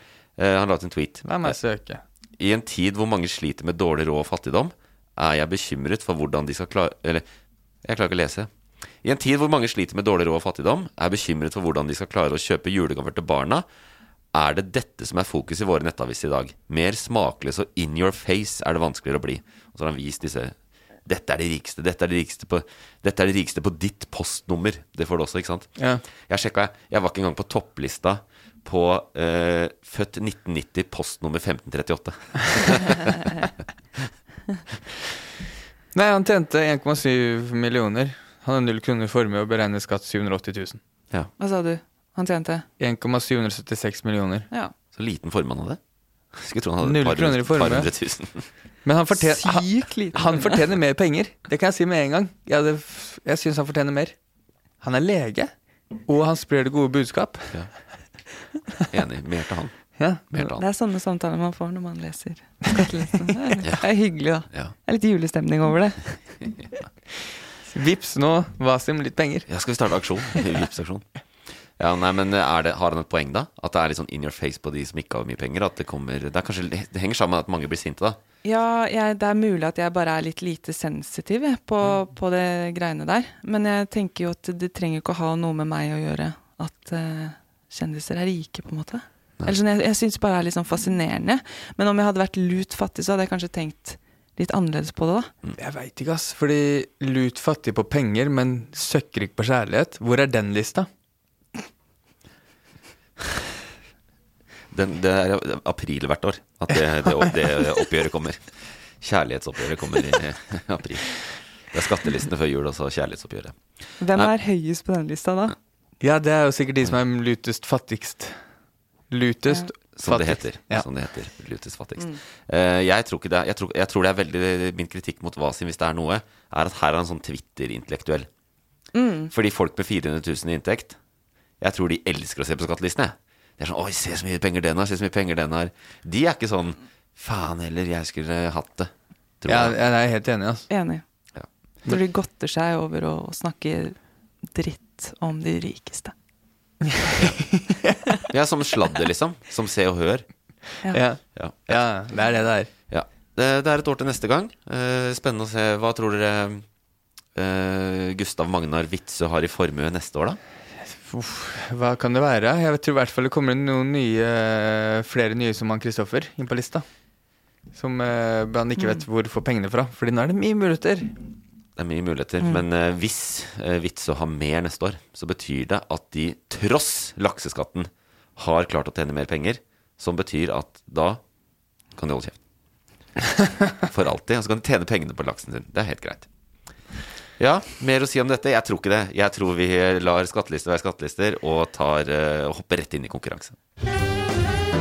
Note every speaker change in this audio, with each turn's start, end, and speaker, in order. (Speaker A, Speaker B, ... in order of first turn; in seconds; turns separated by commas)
Speaker A: 0.4-1.6, Speaker B: 1.2-2.0, Speaker A: 2.4-7.2, Speaker A: 7.8-8.5, Speaker A: 9.0-13.7, Speaker A: 14.3-20.5, Speaker A: 21.0-33.3, Speaker B: 25.8-26.0, Speaker B: 35.9-40.8, Speaker C: 41.4-42.6, Speaker B: 42.8-44.5, Speaker A: 44.9-45.8, Speaker A: 46.3-48.5, Speaker B: 46.8-47.9, Speaker B: 48.8-54.1, Speaker C: 49.2-50.6, Speaker B: 54.8-55.5, Speaker B: 56.0-57.5, Speaker A: 58.9-59.7, Speaker B: 60.0-60.3, Speaker A: 60.3-60.6, Speaker C: 60.5-66.2, Speaker B: 67.7-69.5, Speaker A: 69.5-71.0, Speaker A: 71.8-78.2, Speaker C: 78.4-95.3, Speaker B: 95.6-100.9, Speaker A: 104.7-108.5, Speaker A: 109.0-113.6, Speaker C: 114.0-115.5, Speaker B: 116.0-118.4, Speaker B: 119.1-120.8, Speaker A: 120.0-128.3, Speaker C: 128.9-129.3, Speaker A: 129.3-131.0, Speaker A: 131.6-139.8, Speaker B: 139.5-140.7, Speaker C: 140.7-141.0, Speaker C: 141.8-143.9, Speaker C: 144.5-146.1, Speaker B: 147.0-148.0, Speaker A: 148.3-150.2, Speaker B: 150.9-152.7, Speaker A: 151.3-151.8, Speaker A: 152.9-156.6, Speaker A: 157.3-160.4, Speaker B: 161.0-166.8, Speaker B: 167.7-171.1, Speaker C: 168.8-169.0, Speaker A: 171.8-181.2, Speaker A: 181.9-182.4, Speaker A: 183.8-186.3, Speaker A: 187.4-193.6